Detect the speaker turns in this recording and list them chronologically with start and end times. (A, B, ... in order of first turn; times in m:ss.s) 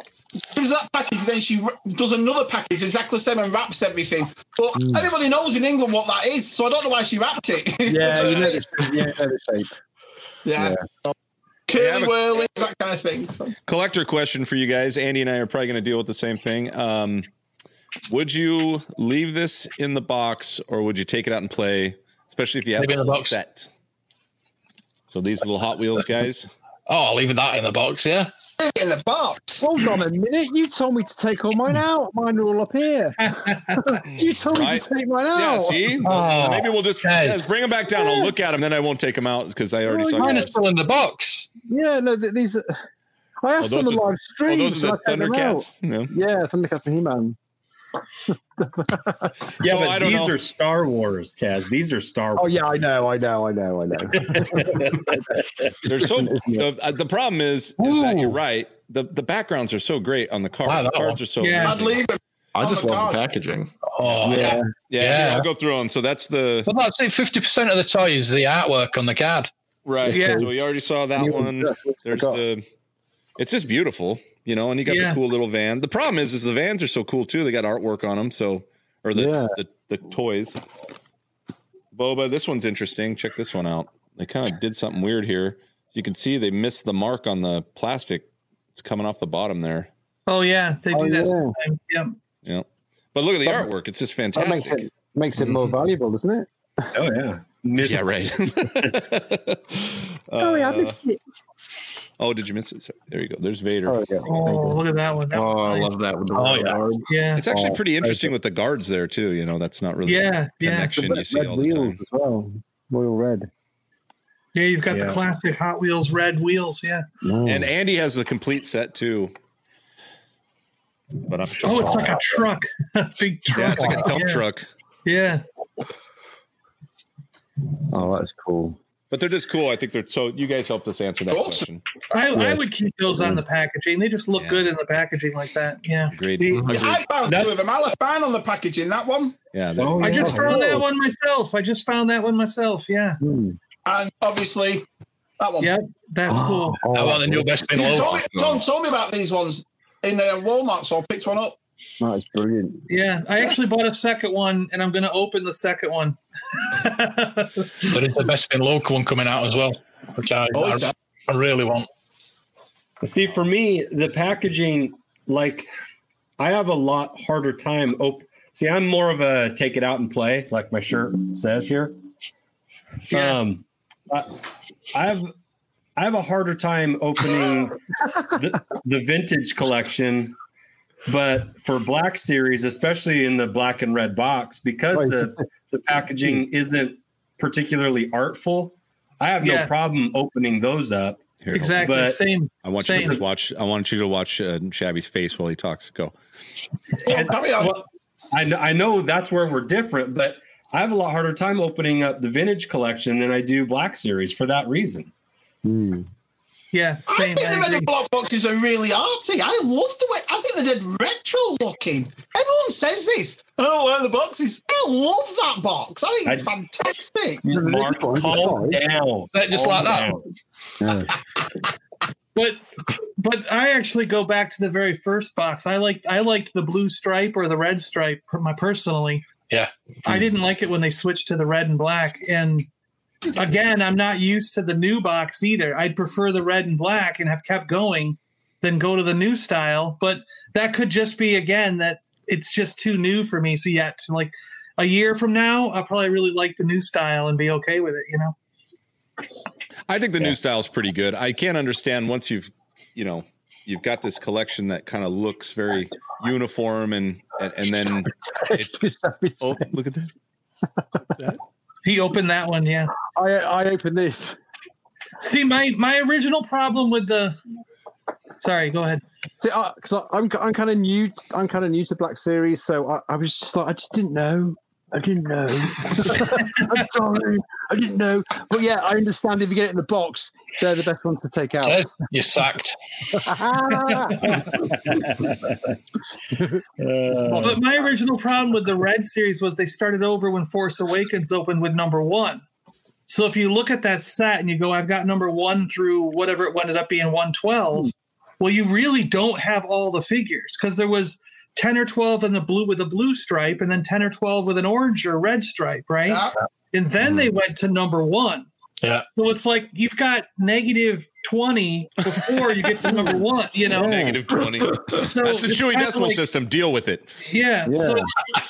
0:00.5-0:08.6 A
0:04.8-0:05.1 B
0:07.8-0:09.7 B
0:10.4-0:11.1 A
0:10.6-0:10.8 B
0:11.7-0:13.5 A
0:11.7-0:12.1 C
0:13.7-0:17.3 C
0:18.1-0:23.7 C
0:22.8-0:23.4 D
0:25.1-0:26.5 C
0:26.9-0:28.3 D
0:28.6-0:29.6 A
0:29.6-0:33.2 B
0:33.2-0:33.8 E
0:33.7-0:36.4 B
0:34.4-0:40.5 C
0:36.0-0:37.4 D
0:37.9-0:38.3 B
0:39.8-0:40.5 B
0:40.2-0:41.5 D
0:41.7-0:42.8 B
0:43.4-0:47.4 B
0:43.6-0:46.1 C
0:48.6-0:49.3 B
0:49.6-0:50.4 C
0:49.6-0:52.8 F
0:52.4-0:56.7 B
0:54.2-0:55.2 F
0:55.8-1:02.0 C
0:57.8-0:58.4 B
1:00.6-1:01.2 D
1:01.4-1:01.8 E
1:01.6-1:03.2 A
1:02.5-1:03.7 G
1:04.0-1:05.5 D
1:04.2-1:04.7 B
1:04.3-1:04.6 A
1:04.9-1:06.7 C
1:06.6-1:09.5 D
1:09.8-1:12.6 C
1:10.1-1:10.4 E
1:10.1-1:10.5 B
1:11.1-1:12.4 B
1:13.4-1:20.6 C
1:14.8-1:15.2 E
1:19.1-1:19.6 B
1:21.9-1:29.9 C
1:30.3-1:32.2 E
1:30.9-1:31.5 B
1:32.4-1:34.9 C
1:34.3-1:36.5 B
1:35.4-1:35.8 F
1:36.9-1:38.1 F
1:37.8-1:41.0 C
1:40.4-1:41.2 B
1:42.2-1:44.0 C
1:43.8-1:44.8 B
1:44.2-1:46.0 E
1:45.3-1:47.2 G
1:46.4-1:46.7 B
1:47.0-1:47.5 E
1:47.3-1:52.0 C
1:47.5-1:48.3 B
1:50.0-1:51.0 E
1:51.0-1:53.5 B
1:54.5-1:57.0 E
1:54.9-1:55.2 B
1:57.2-1:57.7 B
1:57.4-1:59.3 C
2:01.2-2:02.2 C
2:01.6-2:04.4 E
2:01.8-2:02.1 B
2:03.5-2:04.7 C
2:05.0-2:05.4 E
2:07.9-2:08.8 B
2:09.1-2:11.8 C
2:11.3-2:11.6 A
2:12.1-2:16.2 E
2:12.3-2:13.4 B
2:14.3-2:14.7 C
2:16.1-2:17.0 C
2:16.3-2:17.5 F
2:16.7-2:19.4 A
2:19.5-2:20.6 C
2:19.8-2:20.8 F
2:20.0-2:23.2 E
2:20.2-2:20.8 B
2:23.2-2:23.6 B
2:23.8-2:24.8 A
2:25.4-2:25.7 A
2:25.6-2:26.9 E
2:26.3-2:27.6 B
2:26.9-2:28.2 D
2:27.7-2:31.6 A
2:28.2-2:28.6 G
2:32.0-2:32.8 B
2:32.9-2:37.7 E
2:37.9-2:41.9 D
2:40.5-2:40.9 A
2:43.0-2:45.7 F
2:46.4-2:52.0 F
2:53.1-2:54.4 F
2:53.1-2:53.4 E
2:54.9-2:55.3 F
2:56.0-2:57.8 F
2:58.3-3:00.4 F
3:01.1-3:11.2 F
3:04.9-3:05.4 B
3:09.4-3:09.7 E
3:11.4-3:12.1 C
3:11.5-3:13.2 E
3:11.8-3:12.2 F
3:12.6-3:16.1 C
3:17.0-3:25.1 F
3:17.0-3:17.8 A
3:25.6-3:26.0 B
3:26.7-3:27.9 E
3:27.1-3:37.4 A
3:37.4-3:40.3 F
3:37.5-3:38.9 B
3:39.3-3:40.1 D
3:40.8-3:41.1 B
3:42.3-3:42.6 E
3:43.2-3:49.2 E
3:50.1-3:52.7 E
3:53.3-4:08.4 E
4:09.9-4:18.8 C
4:18.1-4:20.0 B
4:19.4-4:20.1 C
4:21.8-4:22.9 E
4:23.0-4:24.4 B
4:25.2-4:27.4 E
4:28.4-4:29.0 E
4:29.4-4:42.0 B
4:36.4-4:36.9 E
4:41.6-4:42.8 D
4:43.2-4:44.5 B
4:43.7-4:44.5 E
4:44.5-4:45.7 F
4:46.4-4:47.8 B
4:46.8-4:47.6 F
4:47.4-4:52.4 E
4:53.1-5:08.5 E
5:09.1-5:14.2 E
5:13.7-5:17.1 C
5:13.8-5:14.2 B
5:14.8-5:16.2 E
5:17.3-5:18.0 E
5:17.6-5:18.0 B